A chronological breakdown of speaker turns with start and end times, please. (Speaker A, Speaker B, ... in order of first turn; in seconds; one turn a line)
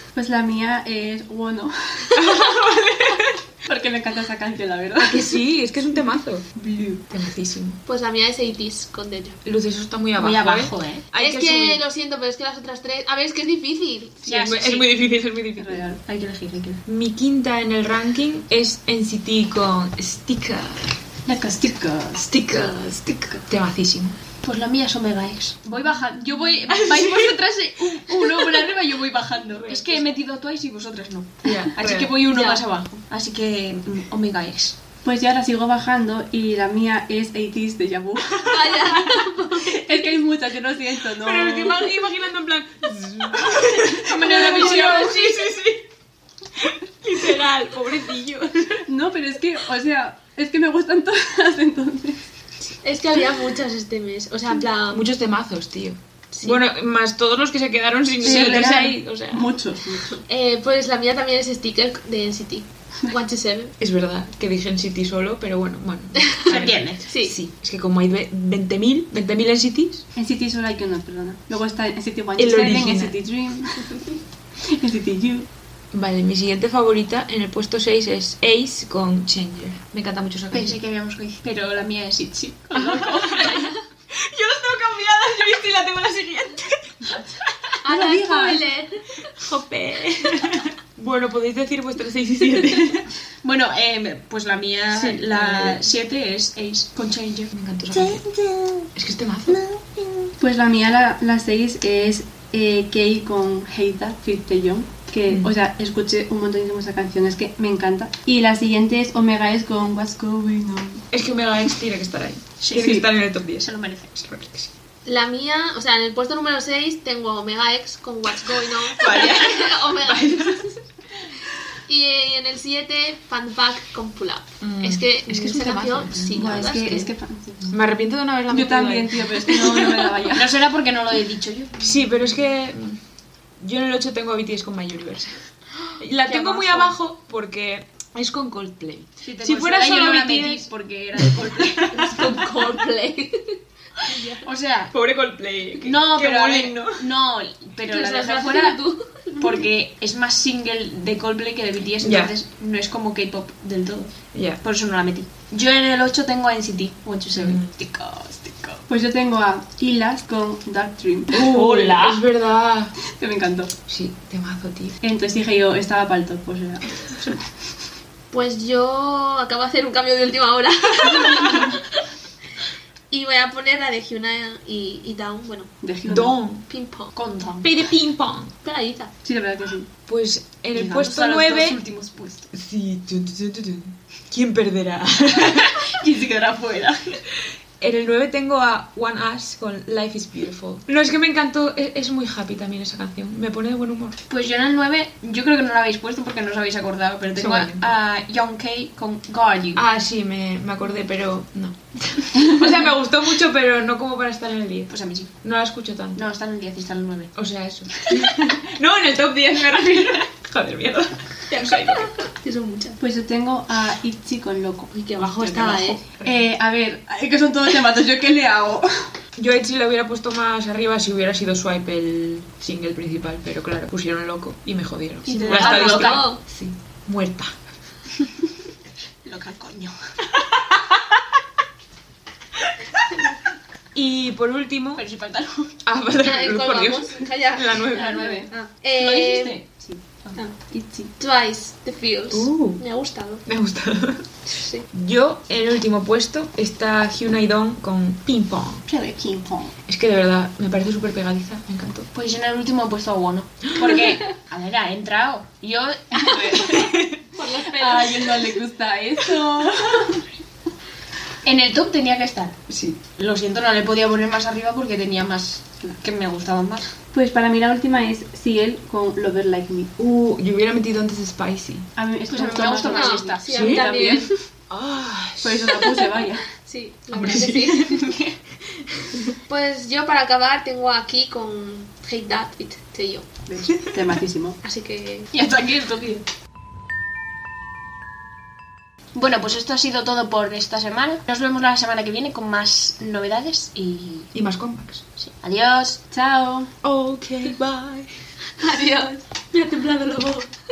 Speaker A: 0.2-2.2
Speaker B: 2.1-3.4
Speaker A: 3.6-5.3
Speaker B: 5.0-7.8
Speaker C: 7.9-9.4
Speaker B: 9.4-11.8
Speaker D: 10.2-11.1
Speaker C: 11.2-14.4
Speaker D: 14.2-14.9
Speaker B: 14.3-15.8
Speaker A: 15.6-16.0
Speaker D: 16.1-16.8
Speaker B: 16.9-20.9
Speaker A: 21.3-22.2
Speaker B: 22.2-24.2
Speaker D: 24.4-34.8
Speaker B: 26.6-27.4
Speaker B: 28.1-28.7
Speaker B: 29.5-30.1
Speaker B: 31.4-32.2
Speaker C: 32.2-32.6
Speaker A: 35.0-39.0
Speaker C: 38.4-40.0
Speaker B: 38.5-39.3
Speaker A: 39.5-41.9
Speaker B: 41.1-45.9
Speaker D: 44.1-45.2
Speaker C: 44.2-45.1
Speaker B: 46.6-48.9
Speaker A: 48.9-52.2
Speaker C: 52.8-55.0
Speaker B: 54.9-59.5
Speaker A: 58.2-60.2
Speaker D: 58.2-58.8
Speaker C: 60.2-63.7
Speaker B: 63.8-70.0
Speaker D: 66.5-67.0
Speaker C: 67.1-67.3
Speaker A: 70.2-74.1
Speaker B: 72.4-73.2
Speaker A: 74.6-75.5
Speaker B: 75.9-80.8
Speaker D: 80.5-83.8
Speaker B: 82.7-87.2
Speaker C: 87.8-89.0
Speaker A: 87.9-88.7
Speaker B: 89.4-93.1
Speaker D: 93.4-98.9
Speaker B: 94.9-95.9
Speaker B: 97.5-98.2
Speaker B: 99.0-99.6
Speaker D: 99.5-100.3
Speaker A: 100.4-111.0
Speaker B: 111.1-113.7
Speaker D: 112.6-113.0
Speaker A: 112.8-113.0
Speaker D: 113.6-114.3
Speaker B: 114.2-114.7
Speaker C: 115.1-120.8
Speaker B: 118.9-120.6
Speaker C: 121.9-127.1
Speaker B: 124.6-126.6
Speaker A: 126.4-127.7
Speaker B: 127.7-130.1
Speaker A: 128.5-130.6
Speaker D: 130.3-132.0
Speaker B: 131.8-133.0
Speaker B: 133.6-142.4
Speaker C: 136.2-136.9
Speaker D: 139.2-142.4
Speaker C: 141.9-144.4
Speaker D: 144.4-144.9
Speaker B: 144.9-147.1
Speaker D: 145.8-148.8
Speaker C: 147.9-149.6
Speaker D: 149.4-158.8
Speaker B: 152.0-152.3
Speaker B: 154.3-154.6
Speaker B: 157.3-157.7
Speaker A: 158.9-161.6
Speaker B: 161.3-162.9
Speaker A: 163.1-163.7
Speaker B: 163.9-165.0
Speaker A: 165.0-167.4
Speaker C: 168.3-172.0
Speaker C: 173.1-175.7
Speaker A: 175.8-176.4
Speaker B: 176.1-176.7
Speaker C: 176.7-177.1
Speaker D: 177.1-177.7
Speaker B: 177.6-178.5
Speaker C: 178.6-179.1
Speaker A: 179.2-179.9
Speaker B: 180.1-181.8
Speaker D: 180.7-182.5
Speaker B: 182.5-186.0
Speaker D: 185.4-187.2
Speaker B: 187.3-194.2
Speaker D: 194.3-199.8
Speaker B: 197.4-197.9
Speaker B: 199.8-206.2
Speaker D: 204.9-205.3
Speaker D: 206.2-207.3
Speaker B: 207.4-212.1
Speaker D: 208.0-208.3
Speaker C: 212.2-213.0
Speaker A: 213.0-214.9
Speaker C: 214.9-216.0
Speaker B: 215.2-216.4
Speaker A: 215.6-219.1
Speaker B: 219.4-227.6
Speaker D: 225.3-226.3
Speaker C: 225.5-226.4
Speaker D: 229.2-230.0
Speaker B: 230.5-231.0
Speaker B: 233.9-235.0
Speaker D: 235.0-235.8
Speaker B: 235.9-238.5
Speaker C: 236.2-239.6
Speaker A: 238.0-238.4
Speaker D: 238.1-240.4
Speaker A: 240.6-241.1
Speaker C: 241.2-243.4
Speaker B: 242.3-242.8
Speaker B: 243.5-244.3
Speaker C: 244.5-244.8
Speaker B: 244.9-248.8
Speaker A: 248.9-249.7
Speaker B: 249.9-252.1
Speaker D: 252.1-256.8
Speaker A: 256.1-256.9
Speaker B: 256.7-257.2
Speaker C: 257.4-258.5
Speaker A: 257.7-260.3
Speaker D: 261.4-266.9
Speaker A: 267.1-269.9
Speaker B: 270.0-271.9
Speaker A: 272.0-274.3
Speaker D: 272.3-273.4
Speaker C: 272.9-274.3
Speaker B: 273.5-273.9
Speaker B: 274.7-276.0
Speaker A: 275.4-276.5
Speaker C: 276.7-278.1
Speaker B: 277.1-278.1
Speaker D: 278.0-278.4
Speaker B: 278.9-279.3
Speaker C: 279.5-283.3
Speaker A: 283.5-284.6
Speaker C: 284.6-285.3
Speaker D: 285.3-286.2
Speaker D: 289.1-294.3
Speaker B: 294.3-295.1
Speaker D: 295.2-296.0
Speaker A: 296.1-296.7
Speaker B: 296.8-298.1
Speaker C: 298.6-300.5